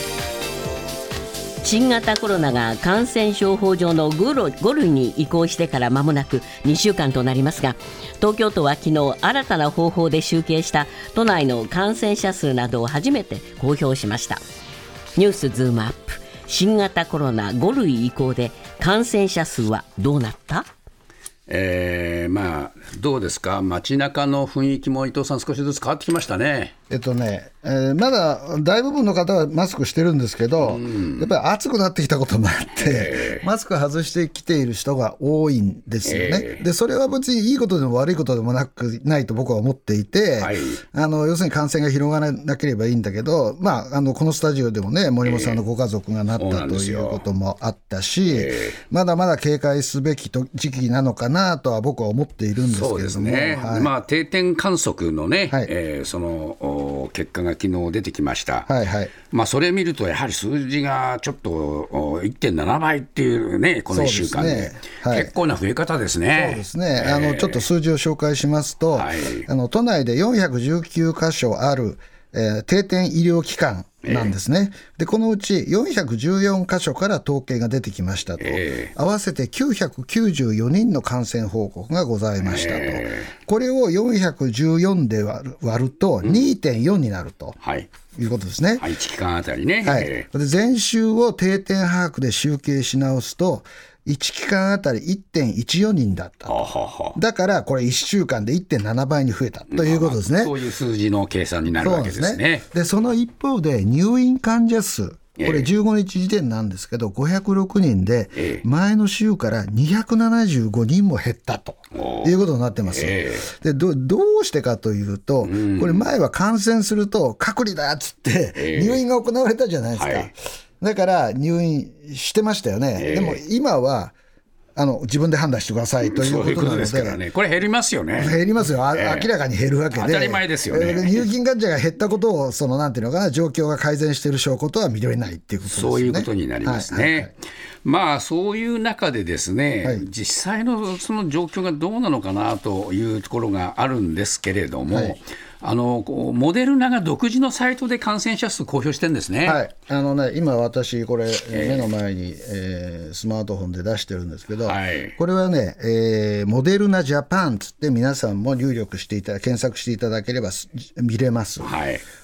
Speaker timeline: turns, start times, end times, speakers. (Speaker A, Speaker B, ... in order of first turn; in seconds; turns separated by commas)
Speaker A: 1.6-14.4, Speaker A: 15.2-20.7, Speaker B: 21.5-26.7, Speaker C: 26.9-53.9, Speaker B: 30.6-31.3, Speaker B: 32.8-33.4, Speaker B: 36.0-36.6, Speaker B: 40.4-40.8, Speaker B: 45.2-45.6, Speaker B: 46.4-47.2, Speaker B: 48.3-48.8, Speaker B: 52.6-58.7, Speaker C: 58.7-59.1, Speaker B: 59.3-67.6, Speaker C: 63.9-65.3, Speaker C: 66.3-87.6, Speaker B: 68.9-69.5, Speaker B: 74.1-74.3, Speaker B: 78.4-78.9, Speaker B: 82.4-83.3, Speaker B: 87.6-87.9, Speaker C: 88.2-88.9, Speaker B: 88.8-90.2, Speaker C: 89.8-96.6, Speaker B: 96.5-97.2, Speaker C: 97.2-100.5, Speaker B: 99.7-102.7, Speaker C: 101.8-124.2, Speaker B: 105.4-105.7, Speaker B: 108.4-108.6, Speaker B: 111.9-112.4, Speaker B: 112.9-113.5, Speaker B: 115.4-116.1, Speaker B: 118.6-119.0, Speaker B: 119.9-120.3, Speaker B: 123.0-123.4, Speaker C: 124.8-127.2, Speaker B: 126.0-128.4, Speaker C: 128.2-137.3, Speaker B: 128.9-129.3, Speaker B: 129.9-131.3, Speaker B: 135.7-137.3, Speaker B: 137.8-149.6, Speaker C: 144.9-145.2, Speaker C: 149.4-161.7, Speaker B: 151.5-151.9, Speaker B: 154.6-155.2, Speaker B: 161.6-162.0